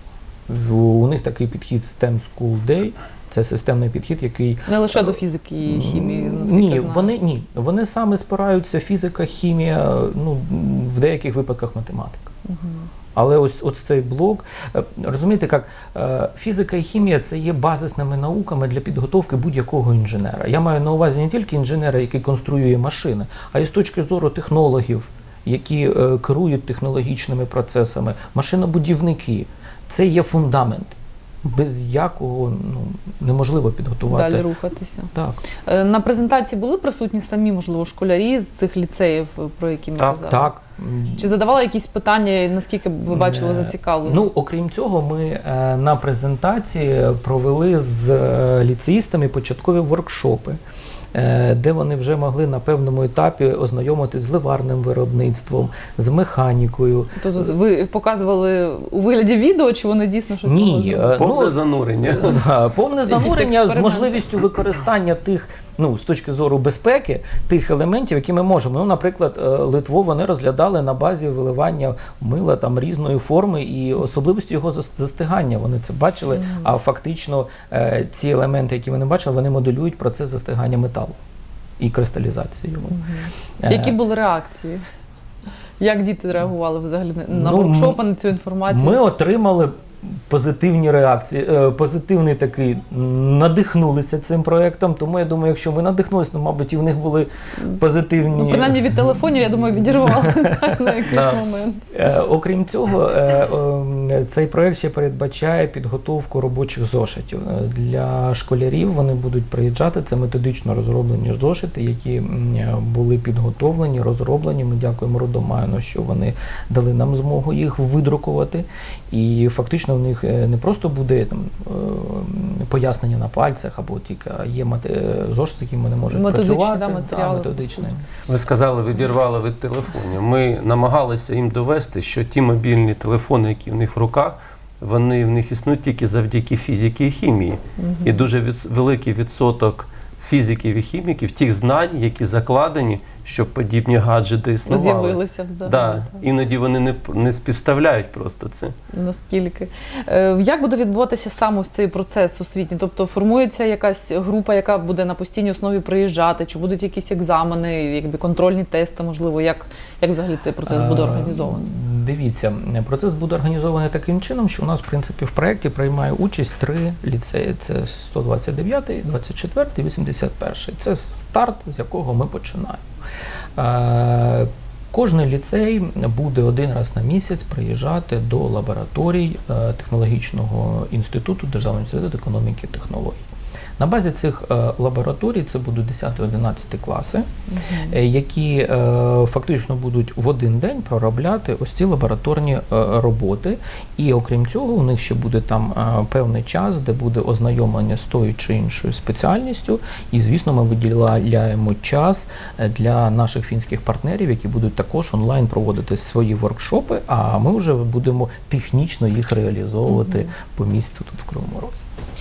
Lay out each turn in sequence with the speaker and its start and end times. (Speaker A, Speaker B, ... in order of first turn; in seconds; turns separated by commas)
Speaker A: 0.5-12.3, Speaker B: 4.7-7.1, Speaker B: 12.5-12.9, Speaker A: 13.2-34.5, Speaker B: 34.1-35.1, Speaker B: 35.7-40.5, Speaker A: 40.0-41.3, Speaker B: 41.2-44.3, Speaker A: 43.1-50.6, Speaker A: 51.1-57.5, Speaker B: 57.2-61.3, Speaker A: 60.4-61.6, Speaker C: 61.2-62.4, Speaker A: 62.1-81.2, Speaker B: 63.1-64.2, Speaker B: 76.3-76.7, Speaker A: 81.8-83.0, Speaker B: 82.9-84.8, Speaker A: 83.6-84.0, Speaker B: 85.8-89.0, Speaker A: 87.3-88.0, Speaker A: 88.7-99.0, Speaker B: 98.3-101.8, Speaker A: 100.2-100.5, Speaker A: 101.1-101.4, Speaker A: 101.9-128.0, Speaker B: 126.1-127.8, Speaker C: 128.3-148.7, Speaker B: 137.8-138.2, Speaker B: 144.7-146.2, Speaker B: 148.9-161.7, Speaker A: 160.7-172.8, Speaker A: 173.6-183.2, Speaker A: 183.8-187.3, Speaker B: 187.5-188.0, Speaker A: 187.9-211.8, Speaker B: 209.9-210.3